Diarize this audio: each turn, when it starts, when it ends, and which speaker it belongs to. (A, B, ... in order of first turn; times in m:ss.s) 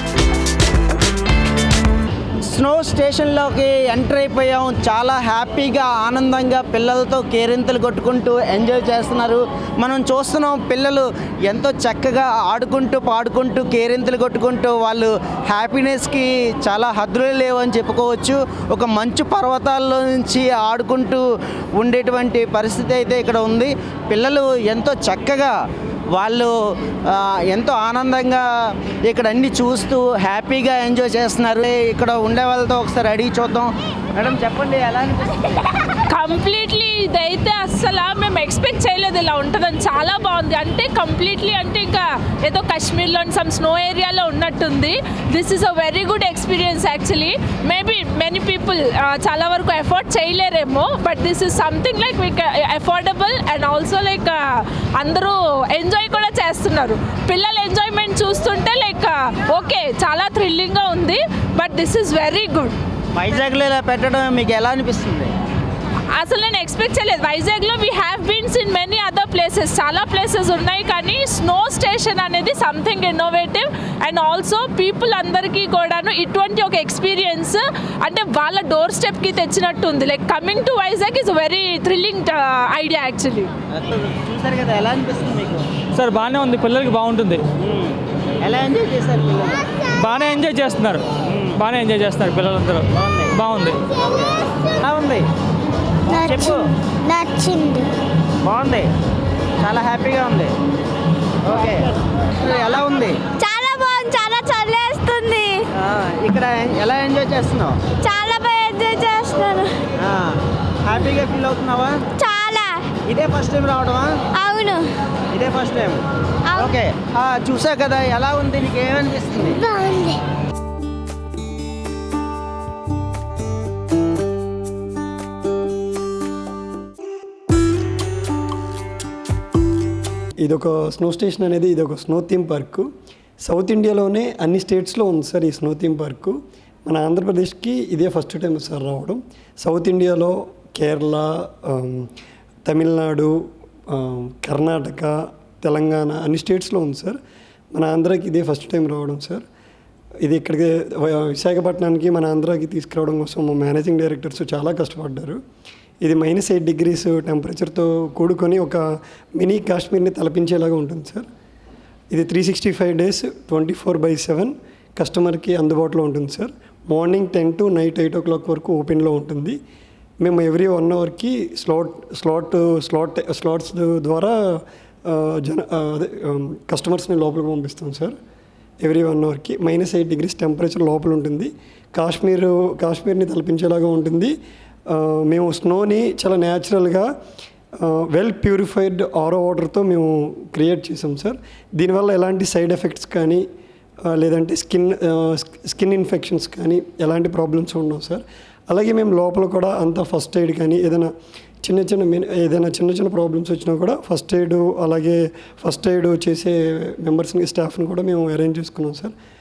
0:02.5-0:21.2 A
0:21.8-0:25.5 A
0:26.1-0:26.5 A
0:27.1-0:28.4 A
0:29.1-0:35.6 A
0:36.1-1:02.8 B
1:03.1-1:05.3 A
1:06.2-1:23.5 B
1:23.7-1:25.7 A
1:25.9-1:27.4 C
1:27.6-1:29.7 A
1:29.9-1:33.8 C
1:31.3-1:31.6 A
1:32.9-1:33.4 A
1:33.9-1:35.3 A
1:36.1-1:36.6 A
1:36.2-1:36.5 D
1:37.0-1:37.9 D
1:38.4-1:38.9 A
1:39.6-1:40.5 A
1:41.4-1:43.2 A
1:43.4-1:45.6 D
1:45.8-1:47.8 A
1:48.0-1:49.8 D
1:50.0-1:52.0 A
1:52.2-1:52.9 D
1:53.0-1:54.2 A
1:54.3-1:54.9 D
1:55.3-1:56.0 A
1:56.5-1:59.6 A
1:59.6-2:00.2 D
2:10.4-2:12.9 E
2:13.4-2:22.1 E
2:22.6-2:27.2 E
2:27.7-2:29.4 E
2:30.2-2:35.4 E
2:36.0-2:38.8 E
2:39.4-2:41.3 E
2:42.1-2:49.6 E
2:50.2-2:58.1 E
2:58.8-3:04.3 E
3:04.9-3:07.1 E
3:07.8-3:13.4 E
3:14.1-3:21.1 E
3:21.6-3:29.1 E